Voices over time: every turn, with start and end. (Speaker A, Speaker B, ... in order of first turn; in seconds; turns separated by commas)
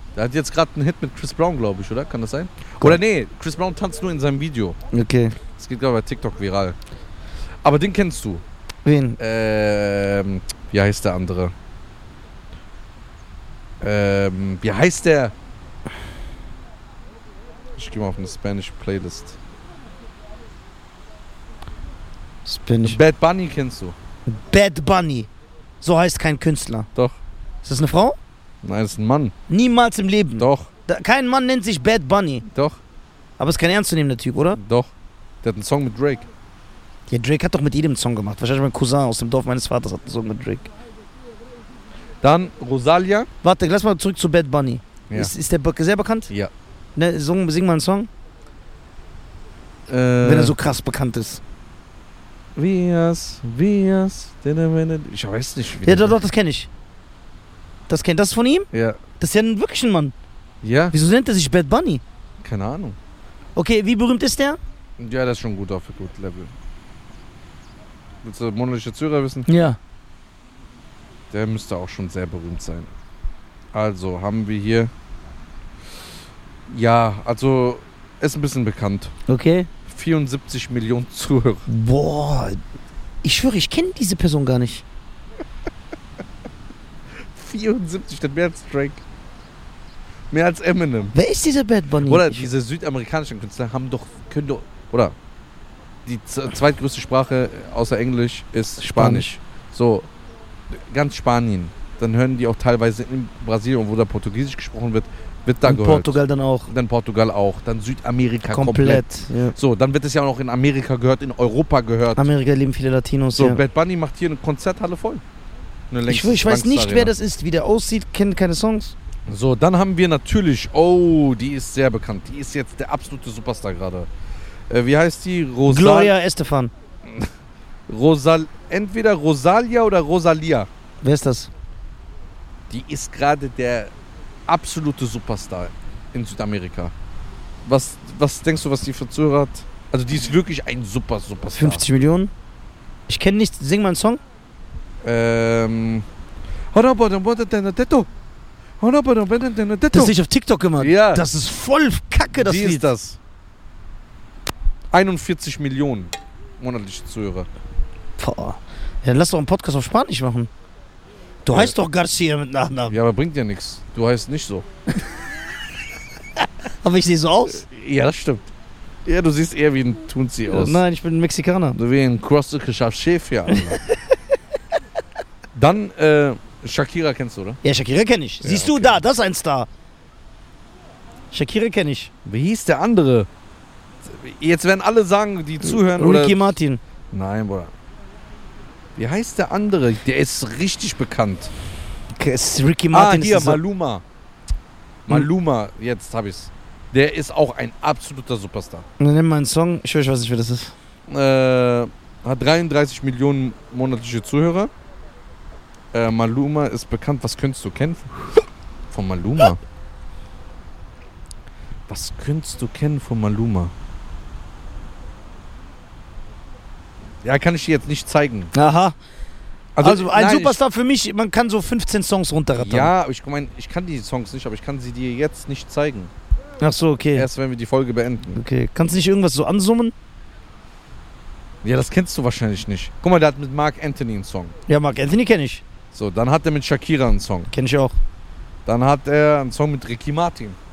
Speaker A: 0.2-4.8, Speaker B: 4.9-5.4, Speaker A: 5.6-6.8, Speaker A: 7.6-8.4, Speaker B: 8.8-9.2, Speaker A: 9.2-11.5, Speaker A: 13.8-15.3, Speaker A: 17.8-19.4, Speaker B: 22.4-23.0, Speaker A: 22.8-24.0, Speaker B: 24.3-25.3, Speaker B: 25.8-26.9, Speaker A: 26.9-27.2, Speaker B: 27.6-28.2, Speaker A: 28.6-29.3, Speaker B: 29.5-32.5, Speaker A: 30.4-30.7, Speaker A: 32.5-32.8, Speaker B: 33.4-34.6, Speaker A: 34.5-34.9, Speaker A: 35.4-36.3, Speaker B: 37.1-40.7, Speaker A: 42.2-43.3, Speaker B: 43.4-46.3, Speaker B: 47.0-48.1, Speaker A: 49.9-50.5, Speaker B: 50.2-51.4, Speaker A: 52.6-56.2, Speaker B: 55.9-56.7, Speaker B: 57.9-58.7, Speaker A: 58.7-59.0, Speaker B: 59.2-60.1, Speaker A: 60.6-61.0, Speaker B: 60.9-62.0, Speaker A: 62.4-63.0, Speaker B: 63.6-64.6, Speaker A: 65.0-66.5, Speaker A: 68.2-69.5, Speaker B: 69.5-69.8, Speaker A: 71.3-72.9, Speaker A: 73.7-74.9, Speaker A: 76.7-79.1, Speaker B: 79.3-79.7, Speaker A: 79.9-81.7, Speaker B: 81.7-82.6, Speaker B: 83.2-84.8, Speaker A: 87.3-89.0, Speaker A: 90.3-91.2, Speaker B: 91.1-92.5, Speaker A: 92.1-95.2, Speaker A: 96.1-100.1, Speaker B: 98.8-99.4, Speaker A: 100.7-112.3, Speaker B: 105.6-106.7, Speaker B: 108.5-109.6, Speaker B: 112.2-113.6, Speaker A: 113.4-115.2, Speaker A: 115.9-117.1, Speaker B: 116.1-119.0, Speaker A: 119.3-124.1, Speaker A: 124.7-126.1, Speaker B: 125.7-126.7, Speaker A: 127.0-127.3, Speaker A: 127.9-130.7, Speaker B: 131.0-131.5, Speaker A: 132.7-133.9, Speaker A: 134.5-136.9, Speaker A: 137.7-141.8, Speaker B: 141.6-142.3, Speaker B: 143.1-144.2, Speaker A: 145.0-146.1, Speaker A: 146.7-148.1, Speaker A: 148.8-150.2, Speaker B: 149.9-152.9, Speaker A: 150.8-151.2, Speaker A: 152.3-153.2, Speaker A: 154.9-157.5, Speaker B: 158.2-160.5, Speaker B: 161.4-162.9, Speaker A: 162.9-164.7, Speaker B: 166.8-167.6, Speaker A: 167.6-168.5, Speaker A: 169.1-170.8, Speaker B: 170.5-171.8, Speaker A: 171.7-173.8, Speaker B: 173.5-174.1, Speaker A: 175.6-177.6, Speaker B: 177.6-179.7, Speaker A: 178.4-179.0, Speaker B: 181.3-182.1, Speaker A: 182.2-183.3, Speaker A: 184.0-186.6, Speaker B: 185.6-186.8, Speaker A: 187.1-187.7, Speaker A: 189.0-191.5, Speaker B: 192.1-193.6, Speaker A: 192.9-194.0, Speaker A: 195.1-198.9, Speaker B: 199.0-200.7, Speaker A: 201.1-204.7, Speaker A: 205.9-209.6, Speaker A: 211.9-213.7, Speaker A: 217.2-218.5, Speaker B: 218.5-219.0, Speaker A: 219.8-220.6, Speaker B: 219.8-222.9, Speaker A: 222.6-226.1, Speaker B: 226.6-227.3, Speaker A: 227.2-228.4, Speaker B: 228.3-229.9, Speaker A: 231.6-234.6, Speaker B: 234.7-235.6, Speaker A: 235.9-237.5, Speaker B: 237.5-238.0, Speaker A: 238.7-240.6